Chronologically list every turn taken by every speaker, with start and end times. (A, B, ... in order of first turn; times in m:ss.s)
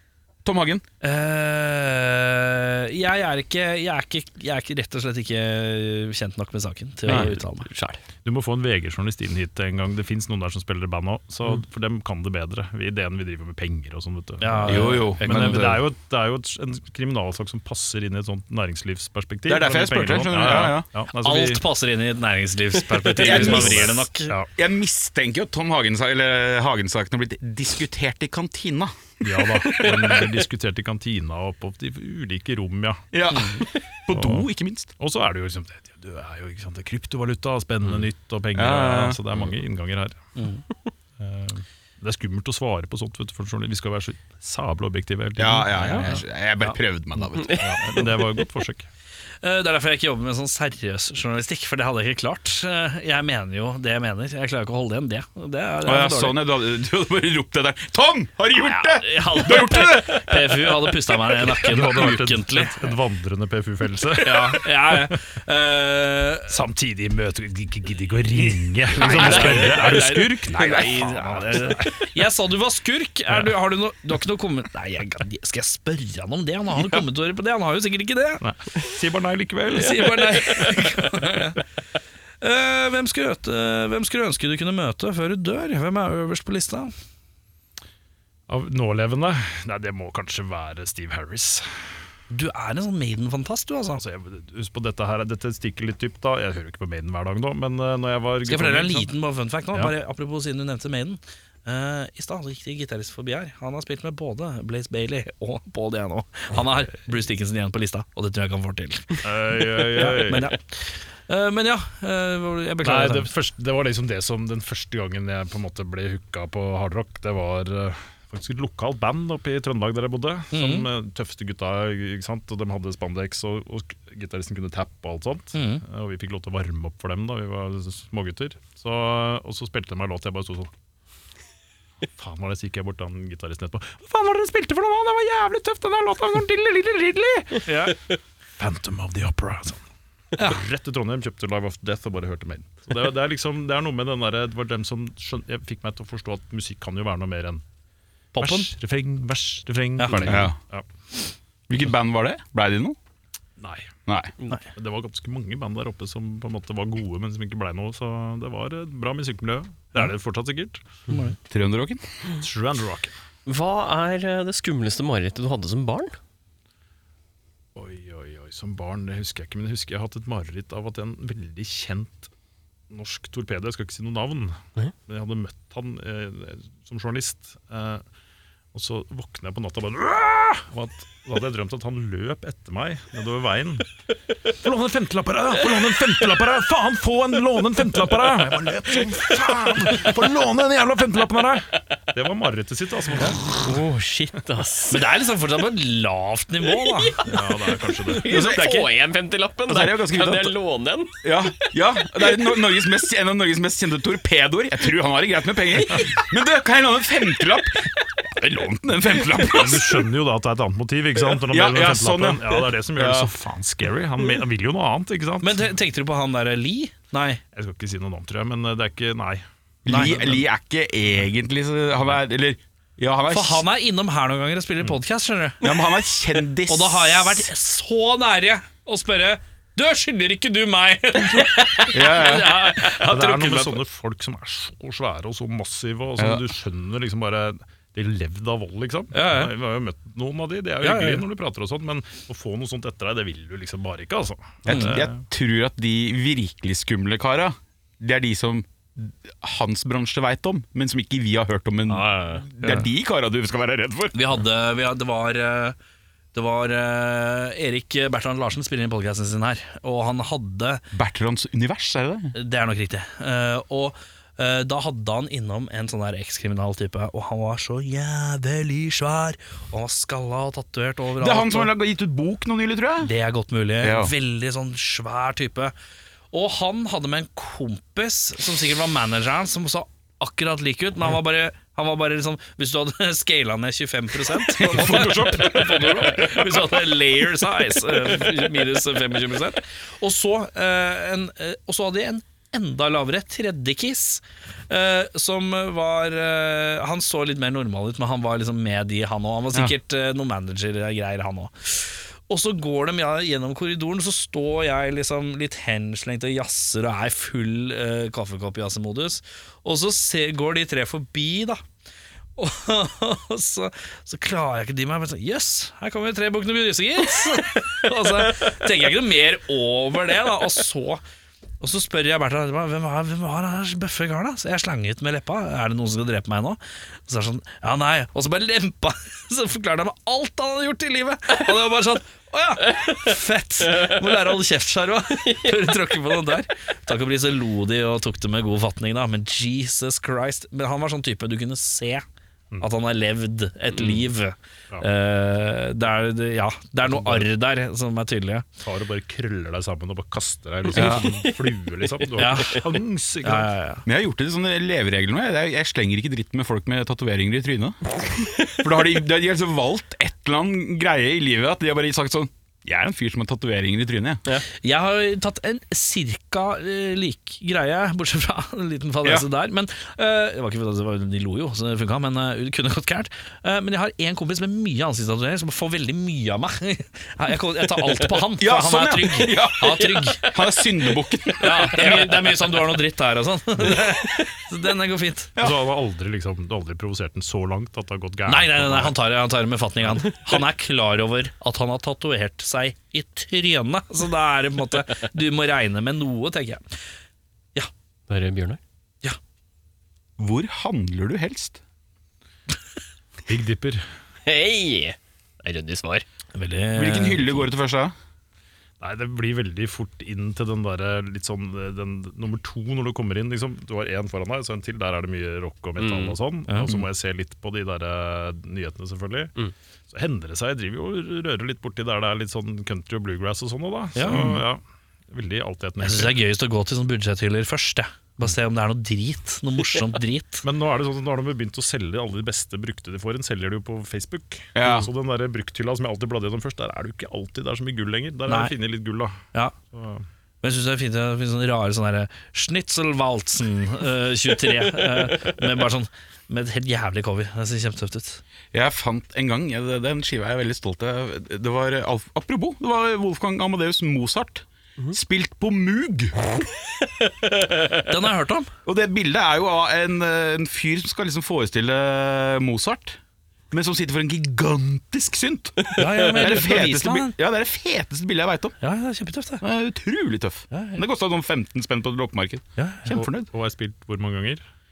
0:00.4-0:00.8 A
0:01.0-0:07.7 B
0:07.1-0:07.3 A
0:07.1-0:08.0 C
0:08.2-0:21.6 D
0:14.4-0:15.8 B
0:14.6-0:15.8 A
0:19.5-0:20.9 A
0:21.2-0:24.4 B
0:23.1-0:24.5 D
0:23.1-0:24.0 A
0:24.6-0:30.1 A
0:29.2-0:33.0 D
0:33.1-0:34.9 A
0:33.3-0:33.6 B
0:34.1-0:34.5 D
0:35.0-0:40.2 D
0:38.6-0:39.4 A
0:40.4-0:40.6 B
0:41.2-0:46.2 D
0:45.4-0:47.8 A
0:45.8-0:46.8 B
0:47.6-0:48.9 D
0:49.4-0:56.4 B
0:55.8-1:00.6 A
0:58.5-1:02.9 B
1:01.6-1:05.1 D
1:04.2-1:06.6 B
1:06.5-1:12.0 D
1:08.4-1:18.4 B
1:18.4-1:21.0 D
1:19.7-1:21.6 B
1:22.4-1:26.9 B
1:28.5-1:31.7 D
1:32.3-1:34.0 B
1:34.0-1:39.1 D
1:38.5-1:53.3 B
1:49.2-1:50.5 D
1:52.8-2:10.7 D
2:00.5-2:00.9 B
2:05.6-2:05.8 B
2:12.2-2:17.8 D
2:17.7-2:18.0 B
2:18.6-2:19.8 D
2:20.4-2:27.6 D
2:28.3-2:28.7 B
2:28.4-2:30.9 D
2:30.0-2:30.5 B
2:30.2-2:30.6 A
2:31.7-2:33.0 A
2:33.6-2:33.9 D
2:34.1-2:34.3 A
2:34.7-2:40.8 D
2:41.1-2:41.4 B
2:41.5-2:42.0 A
2:42.4-2:43.1 D
2:43.5-2:46.2 C
2:47.8-2:52.3 D
2:52.9-2:58.0 D
2:58.7-3:03.9 D
3:04.5-3:13.8 D
3:13.6-3:15.0 C
3:14.9-3:17.3 B
3:17.0-3:21.3 C
3:17.2-3:18.3 D
3:18.2-3:18.8 A
3:18.4-3:18.8 B
3:19.7-3:20.6 A
3:21.2-3:30.1 A
3:29.4-3:35.6 D
3:31.3-3:33.3 A
3:35.4-3:37.4 B
3:37.5-3:39.4 D
3:39.8-3:43.6 A
3:39.9-3:40.4 B
3:43.3-3:45.8 B
3:45.6-3:47.5 A
3:46.7-3:53.8 B
3:51.9-3:52.6 A
3:52.8-4:05.2 D
3:56.2-3:56.5 A
3:59.1-3:59.5 B
4:00.8-4:01.2 B
4:04.6-4:14.2 A
4:04.7-4:05.0 B
4:12.4-4:12.9 B
4:14.1-4:15.8 B
4:16.3-4:20.8 B
4:20.9-4:22.4 A
4:22.4-4:31.7 B
4:31.2-4:33.1 A
4:33.0-4:35.7 B
4:33.8-4:34.1 A
4:36.3-5:11.6 B
4:44.5-4:46.6 A
5:12.4-5:21.0 B
5:21.6-5:42.0 B
5:33.7-5:34.0 C
5:35.3-5:35.6 C
5:42.6-5:48.5 B
5:43.8-5:44.0 C
5:46.8-5:47.3 D
5:48.6-5:53.5 D
5:50.7-5:51.1 A
5:50.8-5:52.1 C
5:52.2-5:53.8 B
5:53.9-6:04.2 A
6:04.5-6:20.3 B
6:18.4-6:22.1 A
6:19.7-6:20.1 C
6:21.4-6:25.3 B
6:21.7-6:22.4 C
6:25.4-6:29.0 D
6:28.3-6:36.6 B
6:38.1-6:38.6 C
6:40.2-6:41.6 A
6:43.3-6:43.8 D
6:44.3-6:46.0 C
6:46.3-6:47.5 B
6:46.7-6:48.0 A
6:48.8-6:59.3 D
6:55.8-6:56.2 C
6:56.5-6:56.8 B
6:59.9-7:06.2 D
7:04.0-7:04.4 B
7:05.8-7:10.4 B
7:10.4-7:19.2 D
7:14.6-7:14.9 A
7:18.3-7:18.5 B
7:19.7-7:20.1 D
7:20.4-7:28.2 B
7:28.5-7:36.3 A
7:37.8-7:38.5 B
7:38.7-7:43.0 A
7:43.5-7:48.6 A
7:45.8-7:47.2 B
7:48.6-7:49.4 B
7:49.4-7:53.3 A
7:50.5-7:50.8 B
7:52.6-7:53.0 B
7:52.9-7:54.4 D